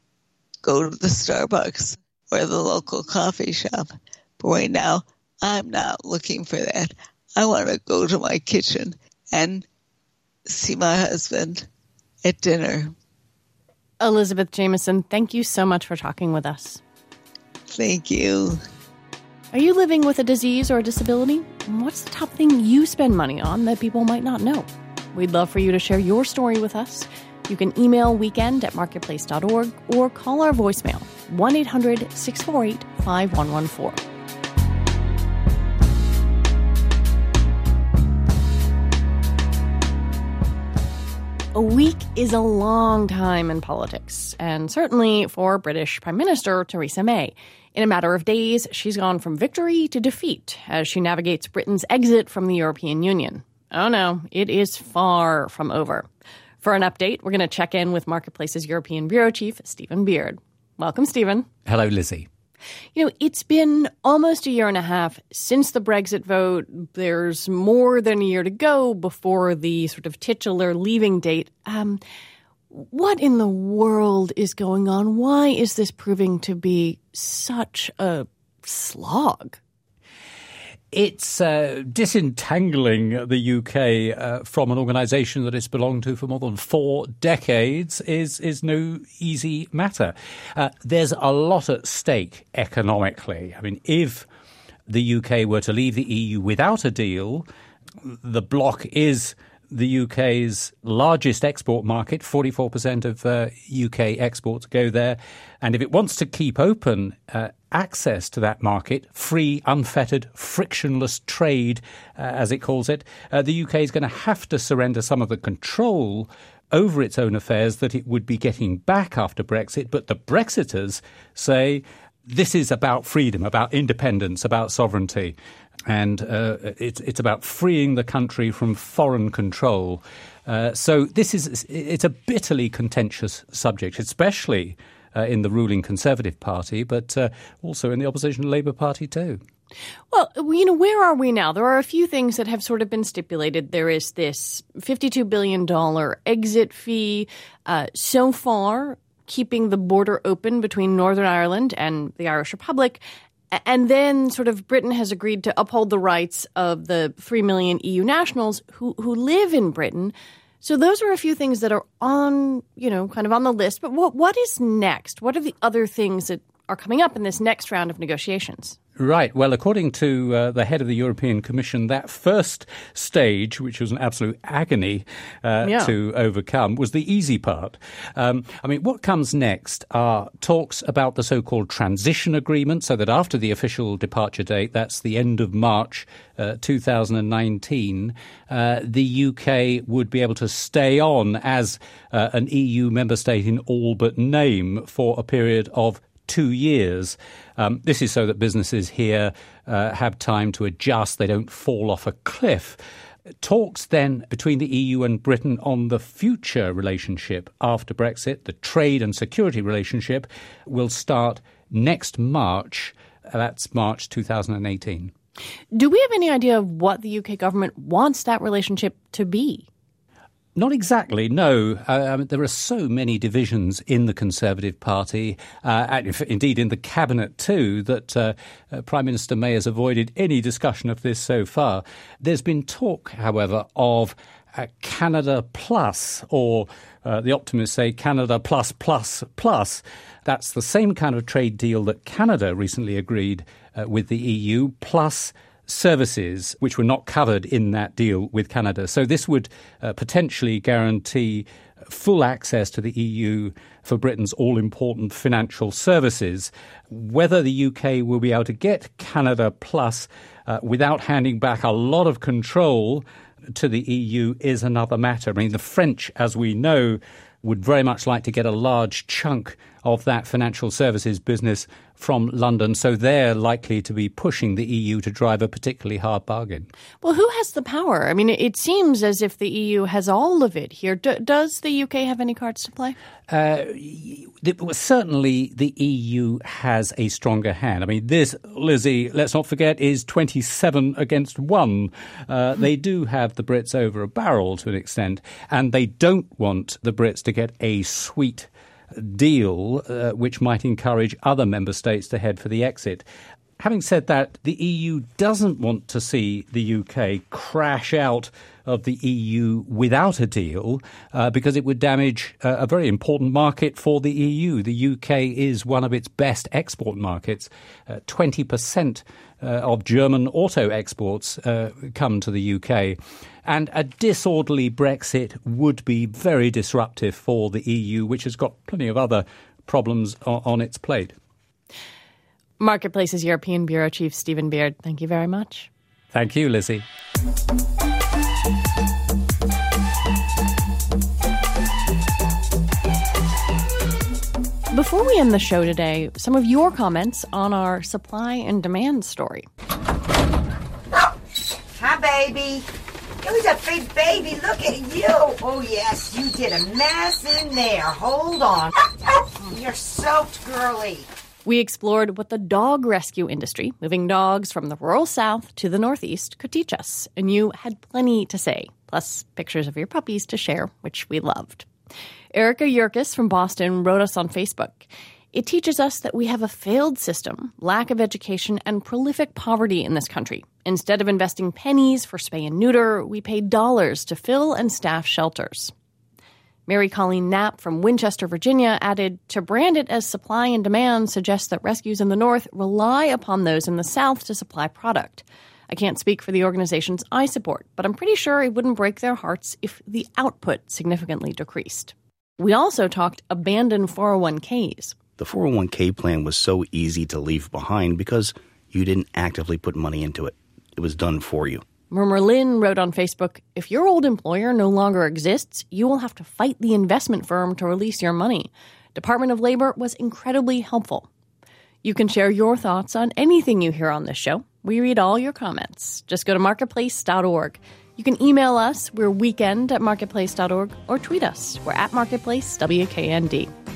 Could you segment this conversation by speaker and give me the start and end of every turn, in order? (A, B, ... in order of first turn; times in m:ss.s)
0:00.6-0:03.9 A
0:04.4-0:09.6 A
0:10.5-0:11.6 A
0:12.2-0:12.9 A
0:14.0-0:16.8 B
0:17.7-0:18.6 A
0:19.5-0:34.0 B
0:41.5-0:56.1 B
0:56.6-1:01.5 B
1:01.6-1:02.3 C
1:02.9-1:12.0 B
1:12.7-1:19.6 B
1:20.9-1:34.3 C
1:34.9-1:37.4 C
1:38.0-2:05.3 C
2:05.9-2:19.4 C
2:20.1-2:48.8 B
2:49.0-3:22.8 C
2:55.6-2:55.9 B
3:23.4-3:35.1 C
3:35.7-3:39.7 B
3:40.6-4:36.7 C
4:37.0-4:43.0 B
4:43.3-5:03.0 C
5:03.6-5:31.1 C
5:32.6-5:35.7 B
5:36.1-5:36.8 C
5:44.7-5:49.5 B
5:51.7-5:52.6 D
5:53.2-5:58.8 D
5:59.4-6:01.0 D
6:01.4-6:11.7 B
6:12.3-6:25.7 B
6:26.7-6:44.9 B
6:45.2-6:51.6 E
6:51.9-7:01.1 B
7:01.8-7:13.5 B